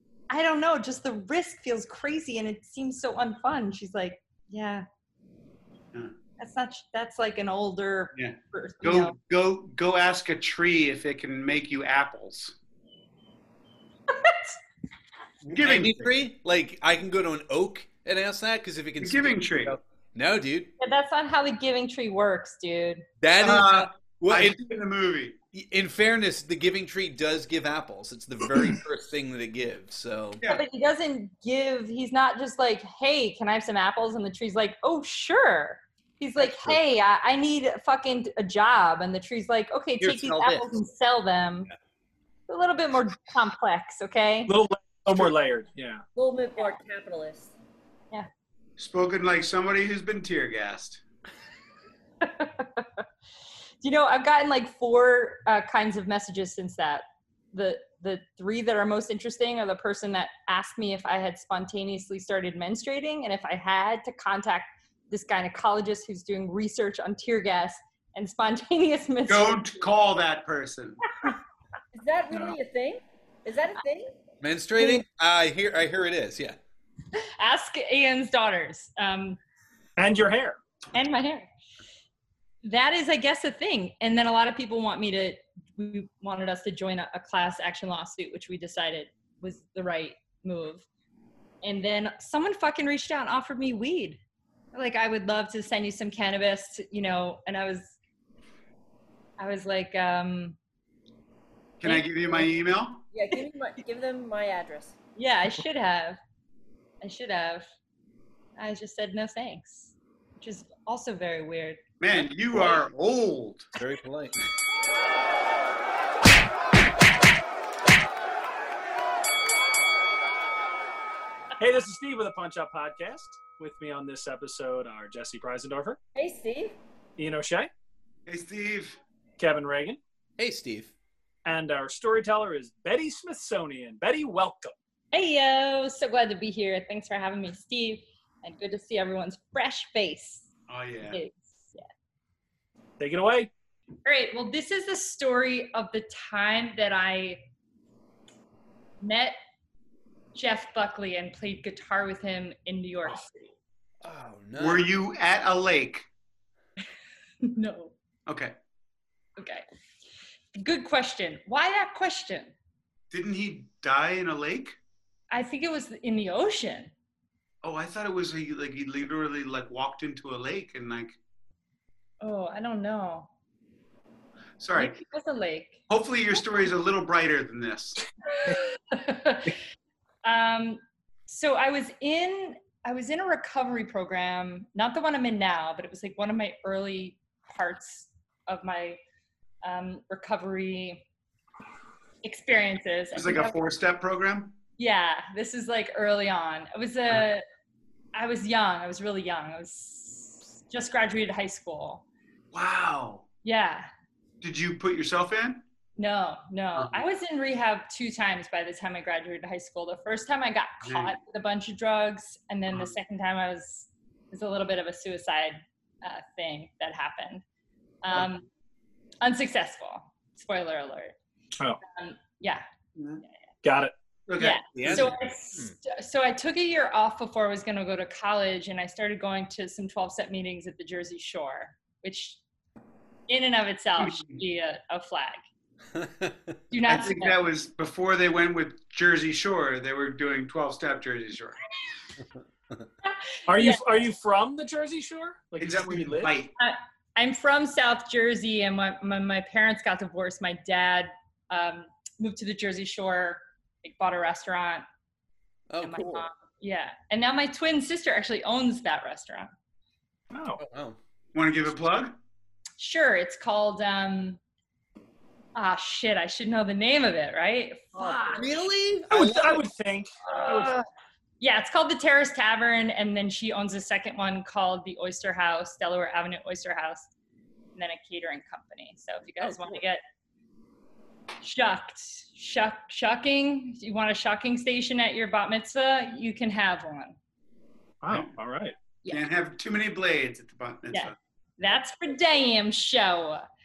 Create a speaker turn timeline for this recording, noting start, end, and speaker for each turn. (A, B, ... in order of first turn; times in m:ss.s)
0:00.3-0:04.8 A
0:06.4-0:09.2 A
0:08.1-0:12.5 B
0:14.1-0:14.6 A
0:15.4-0:16.1 B
0:15.6-0:20.7 C
0:19.0-0:19.8 B
0:20.8-0:23.0 A
0:23.2-0:24.6 C
0:23.4-0:25.4 B
0:25.5-0:30.4 C
0:30.5-0:41.7 A
0:36.4-0:36.8 C
0:40.0-0:40.8 C
0:42.5-0:44.5 A
0:44.5-0:46.0 D
0:46.2-0:47.5 E
0:48.8-0:51.0 B
0:52.2-0:53.0 A
0:53.8-1:09.8 A
1:09.3-1:11.0 B
1:11.9-1:14.1 E
1:14.4-1:16.6 C
1:17.2-1:19.4 A
1:20.0-1:20.6 D
1:20.9-1:21.5 A
1:22.6-1:30.8 A
1:31.6-1:34.2 A
1:34.7-1:38.0 A
1:39.4-1:40.6 A
1:41.8-1:43.0 B
1:41.8-1:42.5 A
1:43.1-1:44.9 E
1:45.2-1:46.2 A
1:47.0-1:47.7 A
1:48.6-1:51.8 A
1:52.0-1:53.7 B
1:53.8-1:54.4 C
2:01.6-2:06.0 D
2:06.1-2:06.8 E
2:07.2-2:07.7 D
2:08.3-2:09.0 B
2:09.4-2:10.0 D
2:10.4-2:10.9 C
2:11.4-2:14.7 D
2:15.1-2:20.5 A
2:20.7-2:21.2 B
2:21.1-2:21.8 A
2:23.0-2:23.5 D
2:24.0-2:27.4 A
2:29.0-2:29.4 A
2:30.3-2:33.5 A
2:34.0-2:34.9 C
2:34.6-2:36.1 B
2:37.4-2:37.9 A
2:38.3-2:38.5 B
2:39.4-2:39.6 A
2:40.5-2:42.5 A
2:43.1-2:44.8 B
2:45.3-2:46.9 A
2:47.6-2:51.2 B
2:52.2-2:53.3 A
2:54.6-2:55.0 B
2:54.8-2:55.8 A
2:55.9-2:58.0 B
2:58.3-2:59.6 A
3:00.2-3:09.0 A
3:09.6-3:11.0 A
3:12.2-3:13.6 A
3:13.1-3:14.5 B
3:14.8-3:17.4 A
3:18.1-3:22.0 A
3:22.5-3:23.2 B
3:23.4-3:23.9 A
3:24.4-3:25.6 B
3:26.0-3:37.4 A
3:26.8-3:27.0 B
3:30.8-3:31.2 B
3:38.0-3:38.5 A
3:39.2-3:41.1 A
3:41.8-3:42.6 A
3:43.0-3:43.2 B
3:43.6-3:43.9 D
3:44.3-3:45.1 B
3:44.4-3:52.4 A
3:44.7-3:45.8 C
3:53.3-3:55.4 A
3:54.0-3:54.3 B
3:55.9-3:56.5 C
3:56.7-3:57.4 A
3:56.9-4:01.6 B
4:03.0-4:03.8 A
4:03.5-4:06.3 D
4:05.6-4:06.5 B
4:06.6-4:14.8 A
4:15.7-4:16.3 C
4:15.8-4:19.5 A
4:20.3-4:20.6 D
4:20.6-4:21.0 C
4:21.3-4:22.1 B
4:22.8-4:24.4 A
4:25.6-4:28.4 A
4:28.0-4:28.4 E
4:28.3-4:29.6 C
4:29.1-4:30.8 D
4:30.4-4:30.8 C
4:31.4-4:37.1 A
4:37.8-4:40.0 A
4:41.4-4:47.2 A
4:48.0-4:48.8 D
4:49.1-4:51.2 B
4:50.9-4:53.4 A